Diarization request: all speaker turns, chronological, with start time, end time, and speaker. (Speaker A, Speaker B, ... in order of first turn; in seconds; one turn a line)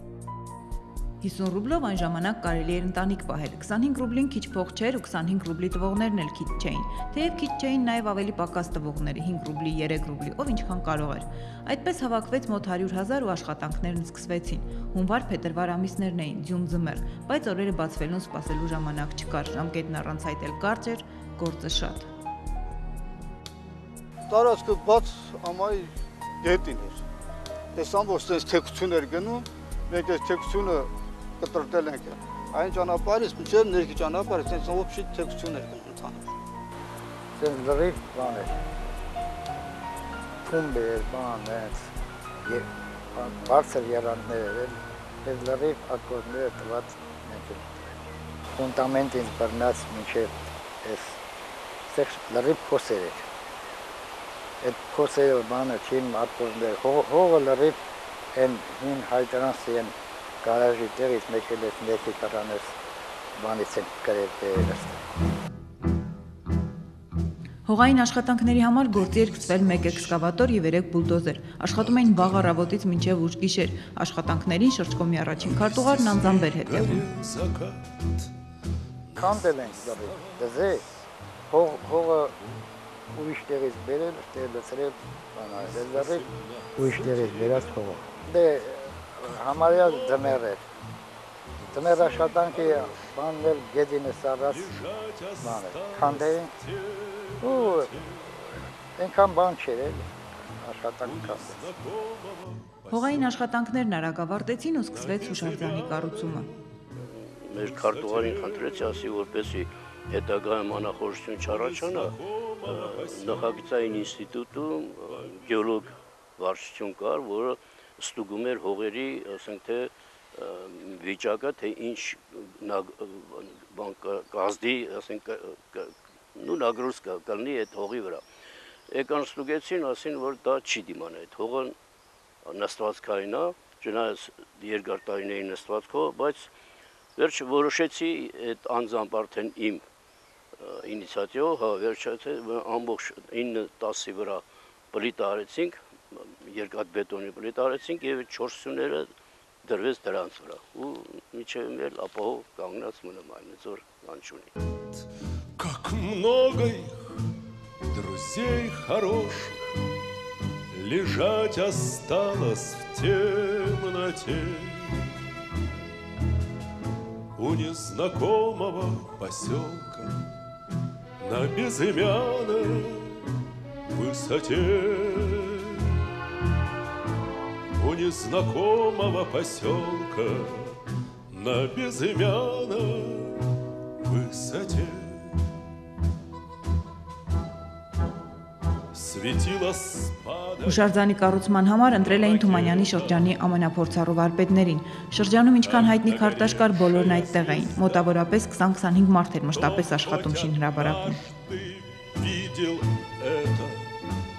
Speaker A: 1.2-22.1
Speaker B: 24.3-27.0
Speaker B: 27.7-36.3
Speaker C: 37.3-38.5
Speaker C: 40.5-41.9
Speaker C: 42.4-47.9
Speaker C: 48.5-51.2
Speaker C: 51.9-53.3
Speaker C: 54.6-57.8
Speaker C: 58.3-62.8
Speaker C: 63.4-65.0
Speaker A: 67.7-77.1
Speaker D: 69.0-70.2
Speaker D: 71.8-72.3
Speaker D: 75.4-78.3
Speaker D: 79.0-81.0
Speaker C: 79.2-80.8
Speaker C: 81.5-82.3
Speaker C: 83.1-86.2
Speaker D: 85.6-88.2
Speaker C: 86.8-90.6
Speaker D: 89.6-90.4
Speaker D: 91.6-93.0
Speaker C: 91.7-94.8
Speaker D: 94.5-98.3
Speaker C: 95.4-96.5
Speaker C: 97.4-98.0
Speaker C: 99.0-101.7
Speaker D: 101.0-103.3
Speaker A: 102.9-106.5
Speaker D: 104.9-106.7
Speaker E: 107.1-128.2
Speaker D: 107.6-109.3
Speaker D: 111.4-114.1
Speaker D: 115.0-115.9
Speaker E: 128.9-131.7
Speaker E: 132.4-136.5
Speaker E: 137.2-139.8
Speaker E: 140.6-149.1
Speaker E: 149.6-154.5
Speaker D: 155.6-157.1
Speaker D: 157.9-159.6
Speaker D: 160.7-165.0
Speaker D: 167.4-170.2
Speaker D: 171.2-173.3
Speaker D: 173.9-175.8
Speaker D: 177.8-180.8
Speaker D: 181.3-183.4
Speaker D: 184.0-185.3
Speaker D: 188.9-190.9
Speaker A: 190.6-201.2
Speaker D: 192.0-193.3
Speaker D: 195.6-198.1
Speaker D: 199.5-203.9